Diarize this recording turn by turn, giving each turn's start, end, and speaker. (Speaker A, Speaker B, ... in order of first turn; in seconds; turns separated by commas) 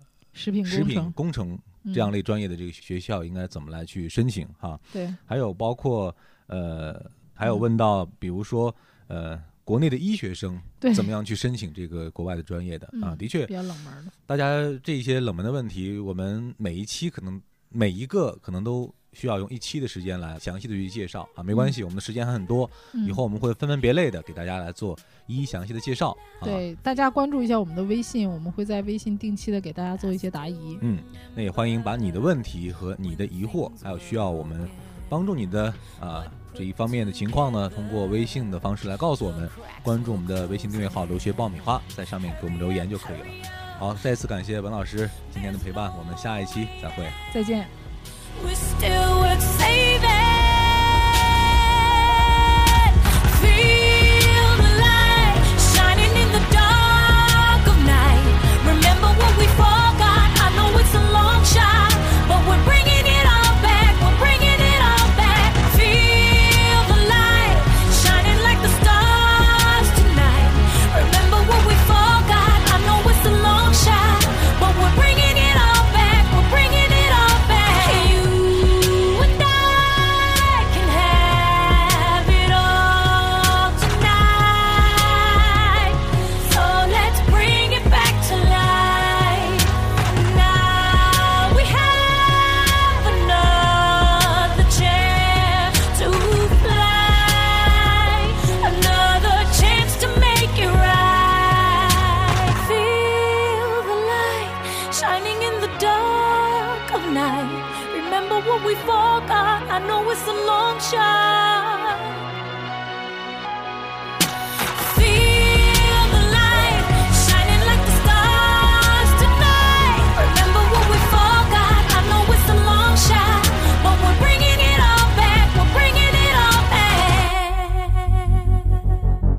Speaker A: 0.3-1.1, Speaker B: 0.6-13.5, Speaker A: 1.8-2.1, Speaker A: 4.9-5.2, Speaker A: 10.8-11.1, Speaker A: 12.9-14.1, Speaker B: 14.3-26.6, Speaker A: 22.9-23.2, Speaker A: 26.4-30.8, Speaker B: 30.8-47.2, Speaker A: 47.3-47.7, Speaker C: 48.4-112.2, Speaker C: 114.7-128.6